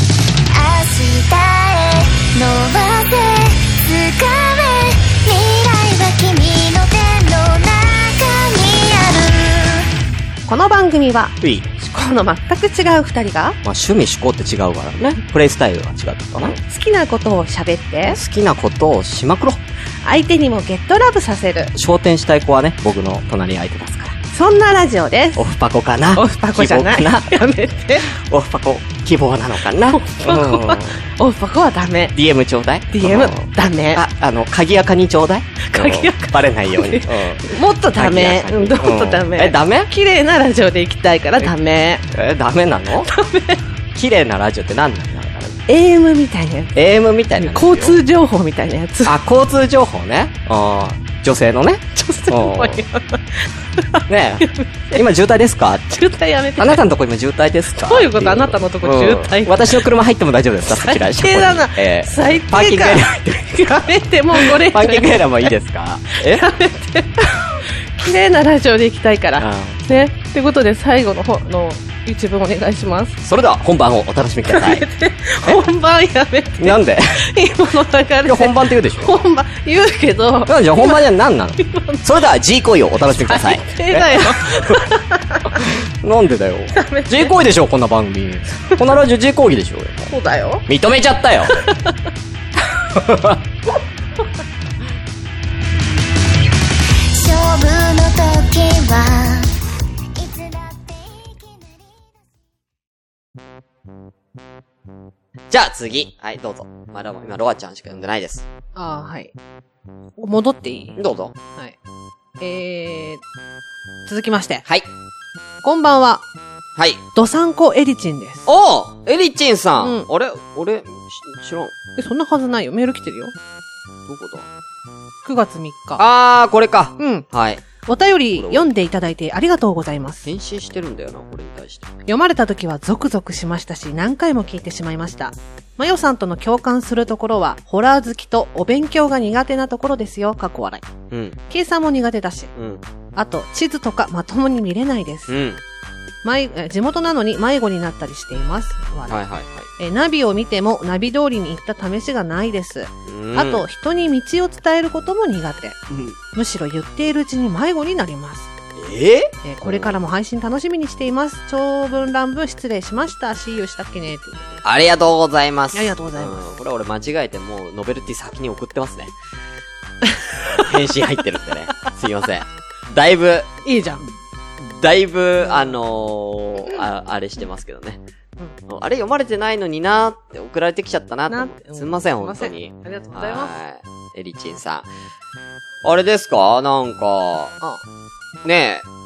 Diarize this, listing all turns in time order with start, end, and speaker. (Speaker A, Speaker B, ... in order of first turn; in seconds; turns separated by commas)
Speaker A: 0.5-9.9, Speaker B: 10.5-13.6, Speaker C: 11.4-11.7, Speaker C: 13.6-16.6, Speaker B: 16.4-18.2, Speaker C: 18.0-19.6, Speaker B: 20.0-21.7, Speaker C: 21.7-24.2, Speaker B: 24.3-25.5, Speaker C: 25.4-27.3, Speaker B: 26.1-28.1, Speaker C: 28.0-31.0, Speaker B: 29.9-32.2, Speaker C: 32.1-39.9, Speaker B: 32.9-34.0, Speaker B: 35.6-42.1, Speaker C: 42.1-43.1, Speaker B: 43.0-43.6, Speaker C: 44.0-45.6, Speaker B: 45.7-46.7, Speaker C: 46.7-48.0, Speaker B: 47.4-49.2, Speaker C: 49.1-52.8, Speaker B: 51.9-55.0, Speaker C: 54.1-56.0, Speaker B: 55.9-56.9, Speaker C: 56.6-66.5, Speaker B: 57.7-59.9, Speaker B: 60.7-65.5, Speaker B: 66.1-73.2, Speaker C: 69.4-70.0, Speaker C: 73.2-74.9, Speaker B: 74.5-82.1, Speaker C: 76.6-77.2, Speaker C: 78.2-79.2, Speaker C: 80.5-84.9, Speaker B: 83.0-85.7, Speaker C: 85.5-90.1, Speaker B: 86.7-87.4, Speaker B: 90.1-90.7, Speaker C: 90.7-91.6, Speaker B: 91.5-92.1, Speaker C: 92.9-93.4, Speaker A: 97.1-99.5, Speaker A: 100.2-102.2, Speaker C: 105.5-108.5, Speaker B: 108.8-109.3, Speaker B: 110.2-111.0, Speaker C: 111.0-111.3, Speaker B: 112.4-113.2, Speaker B: 114.1-114.7, Speaker B: 115.6-116.2, Speaker C: 116.8-117.0, Speaker B: 117.2-118.5, Speaker C: 118.5-121.7, Speaker B: 119.8-120.1, Speaker B: 122.0-123.3, Speaker C: 124.1-124.5, Speaker B: 125.2-126.0, Speaker C: 126.0-127.6, Speaker B: 127.0-127.3, Speaker B: 127.8-130.3, Speaker C: 128.3-128.7, Speaker C: 130.2-131.9, Speaker B: 132.1-140.8, Speaker C: 141.1-141.4, Speaker B: 141.5-142.5, Speaker C: 142.6-142.8, Speaker B: 143.2-145.3, Speaker C: 145.3-145.6, Speaker B: 146.2-149.2, Speaker C: 149.1-149.7, Speaker B: 149.8-155.8, Speaker C: 153.1-153.7, Speaker C: 155.9-156.2, Speaker B: 156.3-158.5, Speaker C: 158.8-160.0, Speaker B: 159.4-164.6, Speaker C: 164.6-169.1, Speaker B: 165.7-166.5, Speaker B: 170.0-170.7, Speaker C: 170.4-173.5, Speaker B: 173.6-174.1, Speaker C: 174.6-178.0, Speaker C: 178.7-184.9, Speaker B: 181.3-183.5, Speaker C: 185.8-187.6, Speaker C: 188.4-188.9